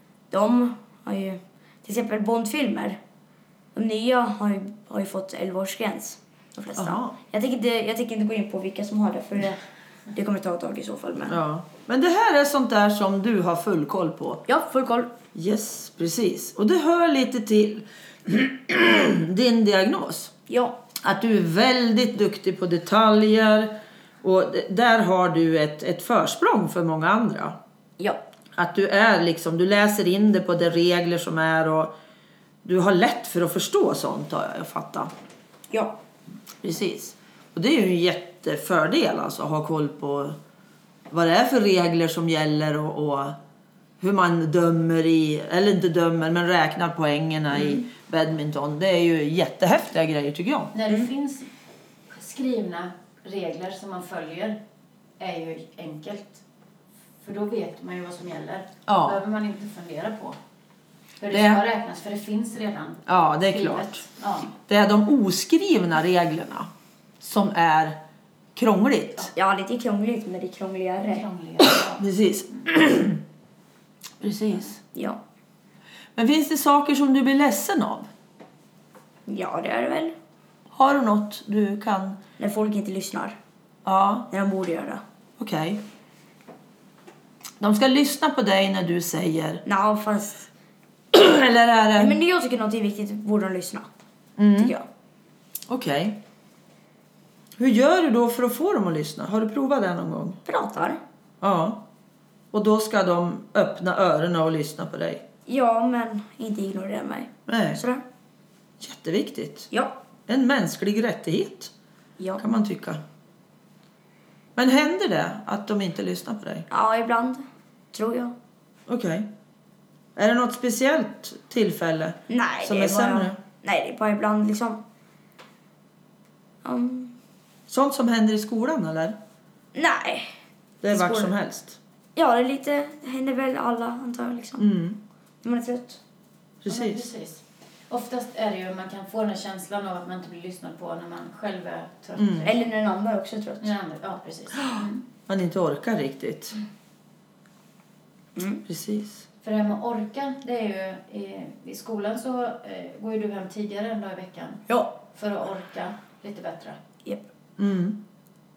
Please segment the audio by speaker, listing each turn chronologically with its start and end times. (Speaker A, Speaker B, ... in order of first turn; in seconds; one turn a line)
Speaker A: 0.3-3.0
Speaker A: 3.7-9.6
Speaker B: 6.8-7.2
Speaker A: 10.1-11.4
Speaker B: 11.3-14.4
Speaker A: 14.5-15.1
Speaker B: 15.3-20.3
Speaker A: 20.5-20.8
Speaker B: 21.0-27.6
Speaker B: 28.6-31.9
Speaker B: 32.6-35.1
Speaker A: 35.7-36.0
Speaker B: 36.6-40.4
Speaker B: 41.1-43.4
Speaker B: 44.0-50.7
Speaker C: 50.7-51.5
Speaker C: 52.1-54.6
Speaker C: 55.2-56.4
Speaker C: 57.2-60.4
Speaker B: 58.9-59.2
Speaker C: 61.2-64.5
Speaker B: 61.3-61.6
Speaker B: 63.1-64.0
Speaker B: 64.6-66.7
Speaker B: 67.2-68.0
Speaker B: 68.5-69.3
Speaker A: 69.3-71.2
Speaker C: 71.0-72.0
Speaker B: 71.6-73.2
Speaker B: 74.2-74.8
Speaker B: 76.2-78.1
Speaker A: 79.3-80.1
Speaker B: 80.7-82.2
Speaker A: 82.4-83.4
Speaker B: 83.8-84.3
Speaker A: 84.3-85.0
Speaker B: 85.4-85.8
Speaker B: 87.6-89.6
Speaker A: 89.7-90.5
Speaker B: 91.1-92.2
Speaker A: 92.0-93.9
Speaker B: 94.4-94.7
Speaker A: 94.5-94.8
Speaker B: 95.7-96.2
Speaker B: 97.6-100.4
Speaker A: 100.5-101.0
Speaker B: 101.4-101.8
Speaker B: 102.5-105.2
Speaker A: 105.5-108.0
Speaker B: 107.5-107.8
Speaker B: 108.8-109.7
Speaker B: 110.3-111.7
Speaker B: 112.4-113.0
Speaker B: 114.6-116.7
Speaker A: 116.7-118.3
Speaker B: 118.9-119.3
Speaker B: 120.2-123.4
Speaker A: 122.3-124.8
Speaker A: 126.6-127.2
Speaker B: 127.7-129.2
Speaker A: 129.8-130.3
Speaker B: 130.8-131.8
Speaker A: 130.9-131.3
Speaker A: 132.2-134.7
Speaker B: 134.6-135.0
Speaker A: 135.4-136.0
Speaker B: 136.6-137.1
Speaker C: 136.7-142.7
Speaker B: 142.2-142.5
Speaker A: 142.4-143.7
Speaker C: 143.6-145.0
Speaker B: 144.6-146.6
Speaker A: 148.4-148.6
Speaker B: 148.7-149.2
Speaker C: 149.4-156.8
Speaker A: 154.7-155.0
Speaker B: 157.6-158.0